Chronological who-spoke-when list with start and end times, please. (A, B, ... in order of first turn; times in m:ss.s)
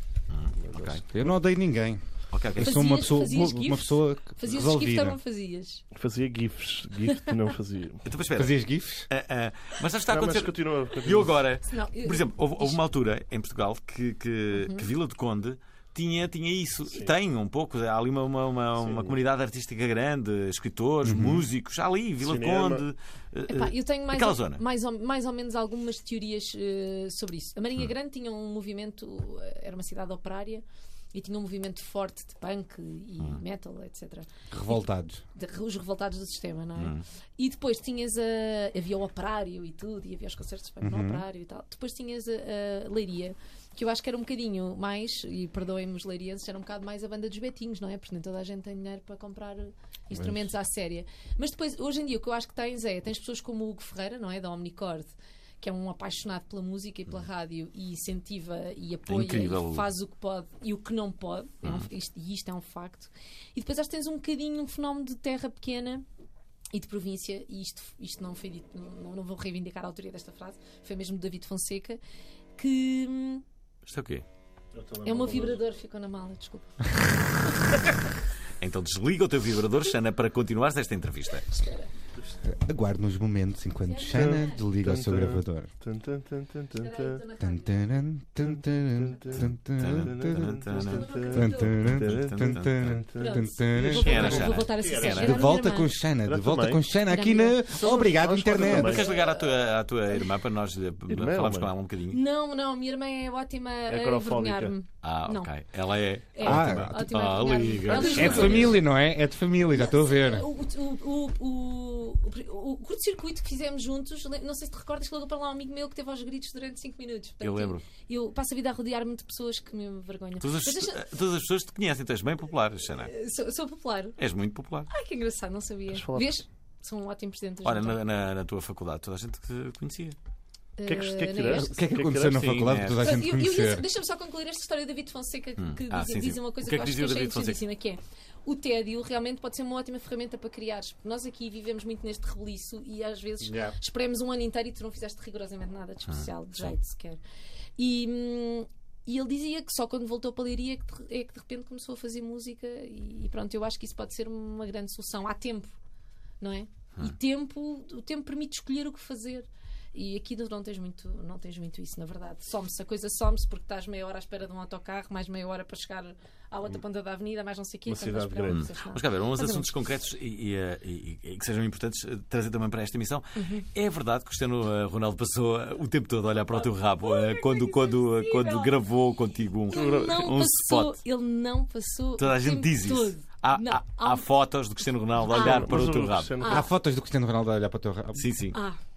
0:00.3-0:01.0 A
0:00.6-0:01.3 B
0:01.1-0:05.2 C
0:02.3-0:02.8 A
0:02.6-0:05.8 D
0:05.9-0:08.0 B
0:08.0-0:08.6 A
0:08.4-0:09.1 C
0:09.1-0:24.6 A
0:10.1-0:11.4 B
0:11.6-0:12.8 D
0:14.5-0:14.9 D
0:18.8-0:19.2 B
0:21.0-0:21.5 C
0:22.2-0:22.8 B
0:23.5-0:34.8 D
0:34.5-0:35.2 C
0:35.4-1:06.0 D
0:36.8-0:37.0 A
0:40.8-0:41.2 C
0:59.1-0:59.9 A
1:06.7-1:12.0 D
1:12.6-1:13.4 D
1:13.9-1:14.2 A
1:14.7-1:15.6 B
1:15.0-1:17.8 D
1:18.6-1:21.5 A
1:21.5-1:21.9 D
1:22.4-1:25.7 C
1:23.8-1:24.7 D
1:24.1-1:27.2 B
1:26.8-1:28.0 D
1:27.4-1:30.6 C
1:28.5-1:35.5 B
1:29.4-1:31.1 A
1:30.8-1:31.9 D
1:31.3-1:34.5 C
1:31.7-1:33.0 A
1:33.2-1:35.9 D
1:33.8-1:35.3 A
1:35.1-1:39.0 C
1:36.2-1:36.8 B
1:37.1-1:38.1 D
1:37.8-1:39.1 B
1:38.6-1:42.2 A
1:38.7-1:39.6 D
1:41.1-1:41.7 B
1:42.1-1:45.5 D
1:43.9-1:44.7 B
1:45.0-1:48.8 A
1:46.3-1:48.8 D
1:46.4-1:47.1 C
1:47.9-1:50.5 C
1:49.7-2:01.0 D
1:57.4-1:57.8 A
2:00.4-2:03.1 A
2:03.0-2:04.2 D
2:04.2-2:04.9 A
2:04.9-2:08.0 D
2:05.9-2:06.3 B
2:07.6-2:10.2 A
2:10.8-2:11.7 D
2:10.8-2:12.5 B
2:11.5-2:13.8 C
2:12.3-2:13.1 A
2:13.0-2:27.2 D
2:15.6-2:17.6 A
2:23.4-2:23.8 C
2:26.1-2:26.7 A
2:27.8-2:35.8 D
2:36.4-2:49.7 D
2:47.9-2:48.6 B
2:48.5-3:01.0 A
2:53.4-2:53.7 D
2:56.6-2:58.8 D
2:59.7-3:04.3 D
2:59.7-3:00.2 B
3:02.2-3:06.4 A
3:05.2-3:05.8 D
3:05.3-3:06.6 B
3:06.4-3:06.7 D
3:06.4-3:08.3 C
3:08.2-3:08.6 A
3:08.5-3:08.8 D